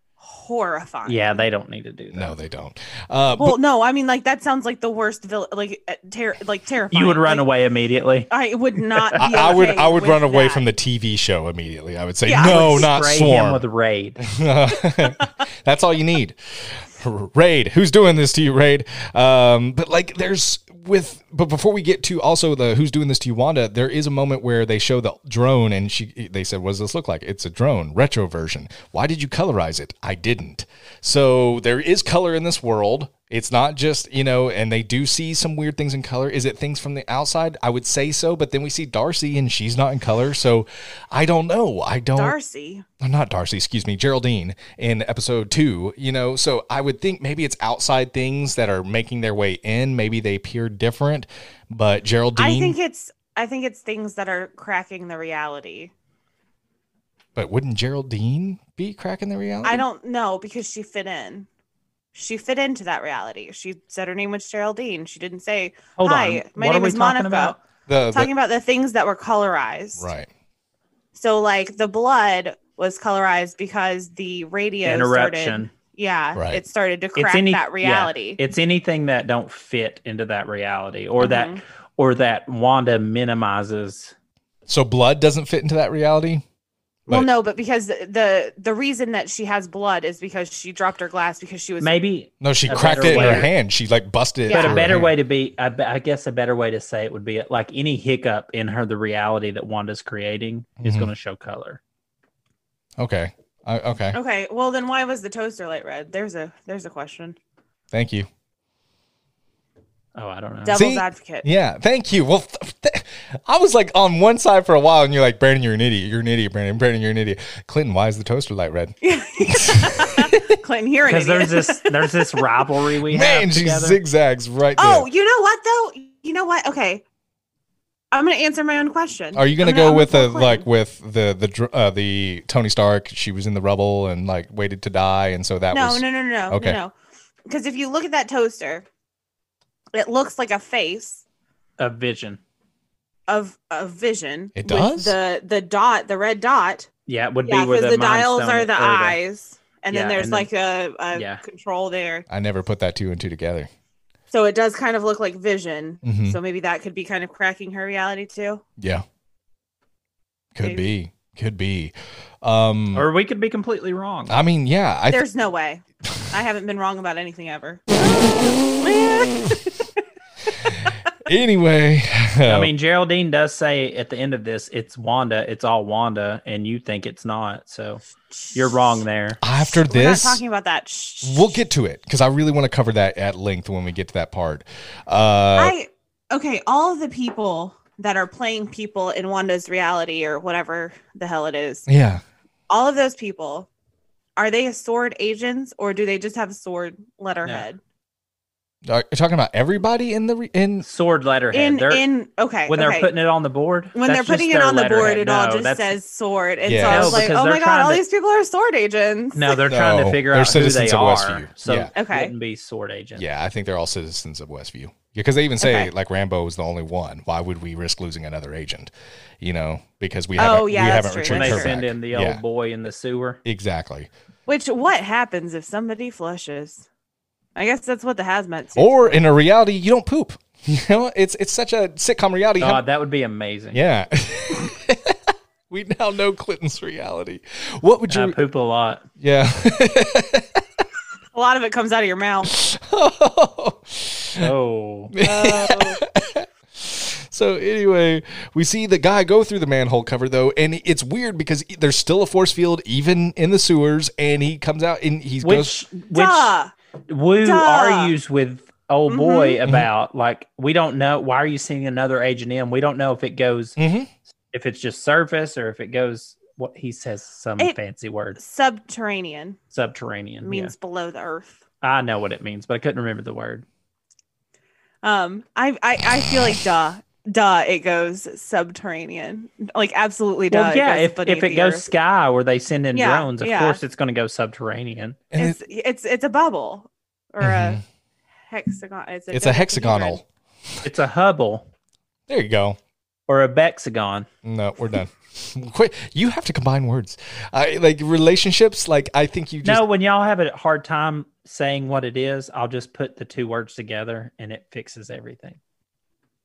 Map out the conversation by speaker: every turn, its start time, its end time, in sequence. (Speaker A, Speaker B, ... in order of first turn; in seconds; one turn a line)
Speaker A: 0.2-1.4
Speaker B: 1.0-2.4
Speaker C: 2.1-3.6
Speaker A: 3.4-7.4
Speaker B: 6.9-8.3
Speaker A: 8.3-10.6
Speaker B: 8.9-9.2
Speaker C: 9.2-13.6
Speaker A: 12.2-12.9
Speaker B: 12.4-14.2
Speaker C: 14.2-42.4
Speaker A: 15.0-15.3
Speaker A: 42.1-42.8
Speaker C: 43.0-52.8
Speaker A: 52.4-55.9
Speaker C: 57.3-59.8
Speaker A: 59.6-61.5
Speaker A: 62.1-67.6
Speaker B: 66.0-67.6
Speaker C: 67.9-68.3
Speaker A: 68.1-70.1
Speaker C: 70.0-70.3
Speaker A: 71.1-78.4
Speaker B: 74.8-75.7
Speaker C: 76.3-76.6
Speaker B: 77.2-84.1
Speaker A: 81.2-81.6
Speaker C: 84.7-86.4
Speaker A: 87.1-92.0
Speaker B: 91.8-93.5
Speaker C: 92.4-95.1
Speaker A: 92.7-93.5
Speaker A: 94.5-94.8
Speaker B: 94.5-101.8
Speaker C: 100.8-101.1
Speaker C: 103.0-104.2
Speaker A: 104.1-107.3
Speaker C: 107.9-108.3
Speaker B: 110.1-110.8
Speaker A: 110.6-111.5
Speaker C: 110.7-120.5
Speaker A: 119.0-122.5
Speaker B: 121.0-124.0
Speaker C: 123.1-125.1
Speaker A: 124.8-127.0
Speaker A: 128.1-130.7
Speaker C: 129.3-136.8
Speaker A: 135.7-136.9
Speaker A: 137.5-138.8
Speaker A: 139.9-141.2
Speaker B: 141.8-142.4
Speaker A: 143.3-146.9
Speaker C: 144.6-145.2
Speaker B: 147.1-149.2
Speaker A: 147.4-152.2
Speaker B: 149.9-150.5
Speaker B: 151.1-151.4
Speaker C: 152.3-153.7
Speaker A: 154.3-158.6
Speaker C: 156.0-156.4
Speaker C: 158.8-159.0
Speaker C: 160.5-163.1
Speaker B: 162.9-164.4
Speaker C: 164.3-165.2
Speaker A: 165.1-169.9
Speaker C: 171.2-172.7
Speaker B: 172.4-178.0
Speaker A: 178.3-179.0
Speaker B: 178.5-179.4
Speaker C: 179.4-180.4
Speaker A: 179.6-181.6
Speaker C: 181.2-185.7
Speaker A: 185.6-191.9
Speaker C: 191.9-192.2
Speaker A: 192.7-193.7
Speaker A: 194.4-197.8
Speaker C: 198.8-200.8
Speaker B: 200.8-202.1
Speaker A: 201.5-203.1
Speaker B: 202.7-205.9
Speaker A: 203.9-209.6
Speaker C: 206.6-207.3
Speaker B: 206.8-208.0
Speaker B: 209.3-213.2
Speaker C: 209.7-211.9
Speaker A: 211.9-212.3
Speaker C: 213.2-222.4
Speaker A: 215.6-215.9
Speaker A: 220.4-221.8
Speaker B: 221.3-223.4
Speaker C: 223.4-224.1
Speaker A: 224.5-226.8
Speaker A: 227.6-229.2
Speaker C: 228.8-232.8
Speaker B: 232.6-233.8
Speaker C: 233.7-235.2
Speaker C: 235.7-238.4
Speaker B: 238.1-239.0
Speaker C: 239.2-240.6
Speaker A: 241.3-242.5
Speaker C: 242.5-244.5
Speaker B: 244.4-245.1
Speaker C: 245.1-255.7
Speaker A: 245.2-246.0
Speaker B: 255.4-256.6
Speaker A: 256.1-256.7
Speaker B: 257.1-263.8
Speaker A: 257.4-258.1
Speaker A: 259.1-259.6
Speaker C: 263.8-264.1
Speaker B: 264.5-268.4
Speaker A: 268.4-269.6
Speaker B: 269.7-270.7
Speaker A: 270.4-271.6
Speaker B: 271.8-273.6
Speaker A: 275.0-281.9
Speaker B: 280.5-285.2
Speaker A: 282.9-283.8
Speaker C: 285.3-285.6
Speaker A: 285.4-287.8
Speaker C: 287.4-287.8
Speaker A: 288.5-290.2
Speaker C: 289.3-290.2
Speaker B: 290.8-291.7
Speaker C: 292.3-292.8
Speaker B: 293.3-294.3
Speaker C: 294.4-299.8
Speaker B: 299.6-305.6